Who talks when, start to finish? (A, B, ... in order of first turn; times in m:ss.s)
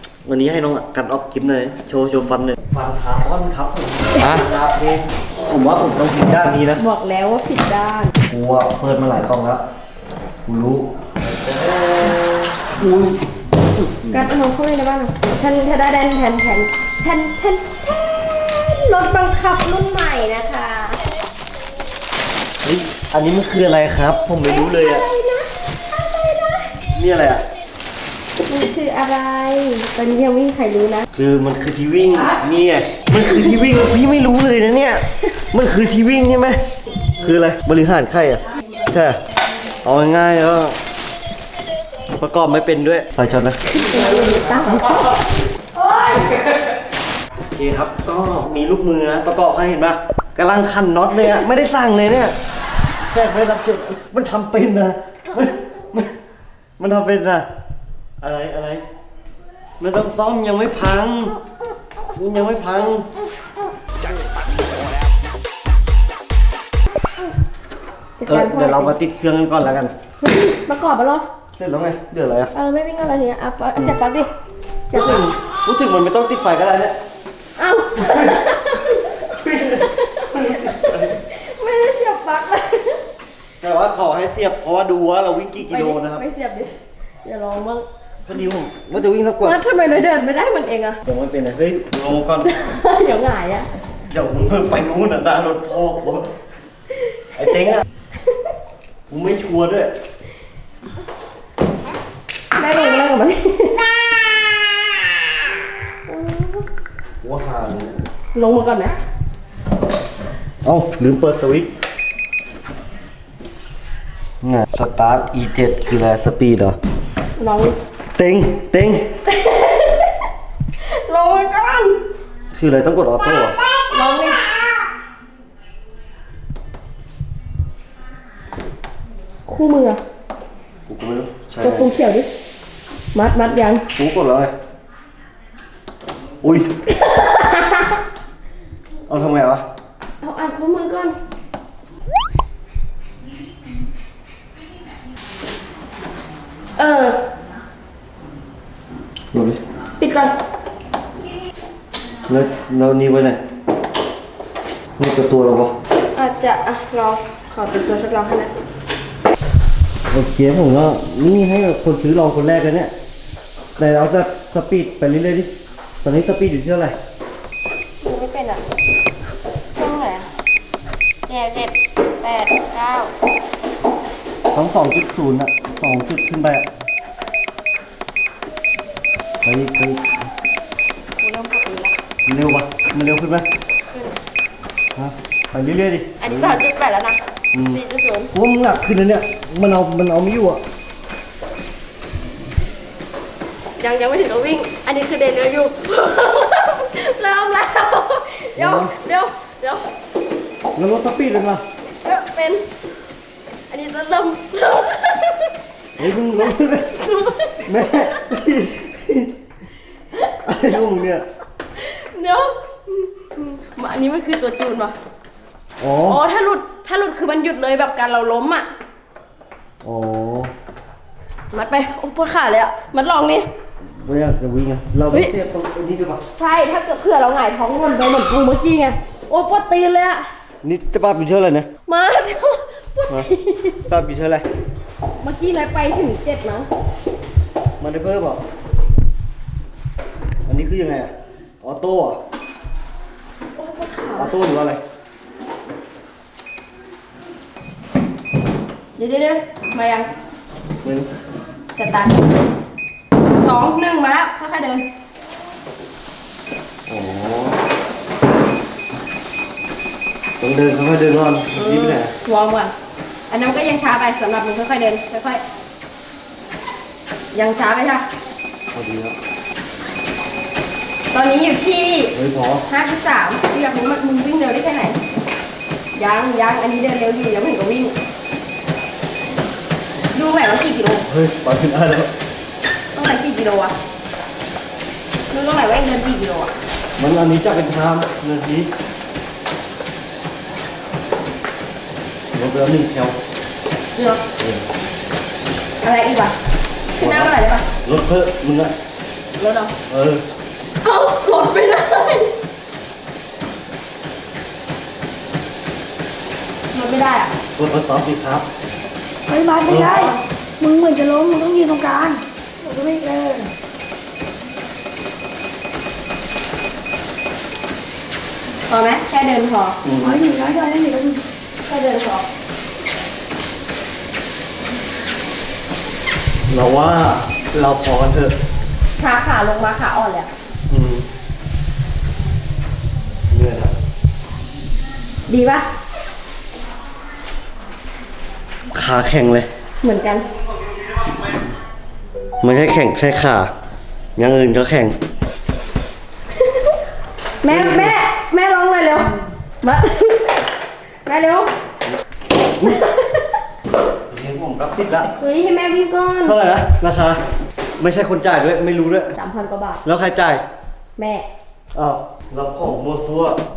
0:00.2-0:06.8 A
0:06.8-0:08.1 B
0:08.3-0:09.6 A
0:10.5-0:13.1 A
0:14.0-0:14.3 A
0:14.1-0:21.0 B
0:22.6-0:25.0 A
0:24.4-0:26.8 B
0:26.9-0:27.4 A
0:28.4-0:31.1 B
0:31.1-0:36.6 A
0:37.2-0:39.2 A
0:39.8-0:40.8 A
0:42.1-0:43.6 A
0:43.7-0:46.4 B
0:47.5-0:52.4 A
0:53.1-0:56.2 A
0:56.8-0:57.5 A
0:58.2-0:58.8 A
0:59.8-1:01.4 A
1:02.2-1:03.1 A
1:08.2-1:09.0 B
1:08.3-1:10.0 A
1:10.2-1:11.3 B
1:11.6-1:12.5 A
1:12.5-1:14.3 B
1:14.9-1:15.3 B
1:14.9-1:17.0 A
1:17.6-1:23.0 B
1:19.2-1:21.2 A
1:23.6-1:26.2 A
1:25.6-1:27.9 B
1:28.3-1:29.6 A
1:29.4-1:31.0 B
1:31.0-1:32.6 A
1:32.4-1:33.7 B
1:34.1-1:36.4 A
1:37.4-1:37.8 A
1:39.1-1:39.9 A
1:42.5-1:43.9 B
1:46.1-1:46.7 B
1:47.2-1:48.0 A
1:48.3-1:49.0 B
1:50.6-1:51.7 A
1:54.4-1:56.8 A
1:57.4-1:57.8 B
1:58.2-1:59.1 A
1:59.3-2:00.3 B
2:00.8-2:02.0 B
2:02.5-2:03.6 A
2:03.6-2:04.6 B
2:09.5-2:10.0 B
2:10.9-2:11.9 A
2:11.6-2:12.3 B
2:13.1-2:13.8 B
2:13.9-2:14.5 A
2:16.4-2:16.7 A
2:16.9-2:18.0 B
2:19.1-2:19.6 A
2:20.2-2:21.2 B
2:26.8-2:27.2 B
2:29.3-2:29.6 A
2:30.0-2:30.4 B
2:32.3-2:33.4 A
2:35.0-2:35.7 A
2:36.2-2:38.5 B
2:40.1-2:42.9 A
2:43.8-2:45.5 A
2:46.0-2:47.0 A
2:48.0-2:48.6 B
2:49.8-2:50.3 B
2:51.3-2:53.1 B
2:54.5-2:56.7 A
2:59.4-3:00.1 A
3:01.2-3:02.0 B
3:02.2-3:03.5 A
3:03.9-3:04.2 B
3:05.0-3:06.6 A
3:06.2-3:08.3 B
3:07.5-3:07.8 A
3:08.3-3:10.6 A
3:13.8-3:19.9 B
3:18.6-3:18.9 A
3:20.8-3:21.6 A
3:21.9-3:22.7 B
3:23.7-3:25.6 B
3:26.0-3:29.3 A
3:26.2-3:28.3 B
3:30.3-3:31.2 A
3:31.8-3:35.0 B
3:35.8-3:36.2 A
3:36.1-3:38.7 B
3:39.8-3:40.5 A
3:41.5-3:43.5 B
3:44.0-3:46.2 A
3:46.4-3:50.3 B
3:50.6-3:51.7 A
3:51.9-3:53.8 B
3:53.9-3:54.5 A
3:55.2-3:56.7 B
3:57.8-3:58.4 A
4:00.5-4:02.2 A
4:03.6-4:04.4 B
4:04.2-4:04.8 A
4:09.0-4:10.1 B
4:10.8-4:11.1 A
4:11.7-4:12.4 B
4:13.3-4:14.9 B
4:16.9-4:17.6 A
4:20.4-4:22.1 A
4:21.5-4:22.7 B
4:23.3-4:25.4 B
4:27.3-4:28.1 B
4:28.7-4:29.2 A
4:31.1-4:32.1 B
4:32.1-4:32.6 A
4:32.7-4:35.0 B
4:36.0-4:38.0 B
4:40.1-4:41.1 B
4:41.1-4:42.1 A
4:42.9-4:43.8 B
4:45.3-4:46.5 B
4:47.0-4:48.7 A
4:52.3-4:53.2 A
4:54.0-4:54.2 B
4:54.4-4:54.6 A
4:55.8-4:56.4 B
4:57.0-4:57.7 B
4:57.0-4:58.7 A
4:59.4-4:59.8 B
4:59.9-5:00.2 A
5:00.8-5:02.3 B
5:06.7-5:07.4 B
5:07.6-5:08.5 A
5:09.3-5:13.5 C
5:09.6-5:10.2 B
5:09.6-5:10.0 A
5:18.7-5:19.8 B
5:19.8-5:20.2 A
5:20.0-5:21.2 C
5:21.6-5:22.3 B
5:26.5-5:28.4 A
5:29.0-5:30.3 B
5:30.7-5:31.1 A
5:33.3-5:33.7 A
5:35.3-5:35.7 B
5:38.7-5:39.5 A
5:39.8-5:40.3 B
5:42.4-5:43.5 A
5:44.2-5:45.0 A
5:46.4-5:46.8 B
5:47.4-5:50.5 B
5:47.5-5:48.0 A
5:51.0-5:51.5 B
5:52.6-5:53.4 B
5:54.1-5:55.1 A
5:55.2-5:56.4 B
5:56.2-5:57.2 A
5:57.8-5:59.2 A
5:59.2-5:59.8 B
5:59.8-6:00.4 A
6:01.0-6:01.3 B
6:01.7-6:03.4 A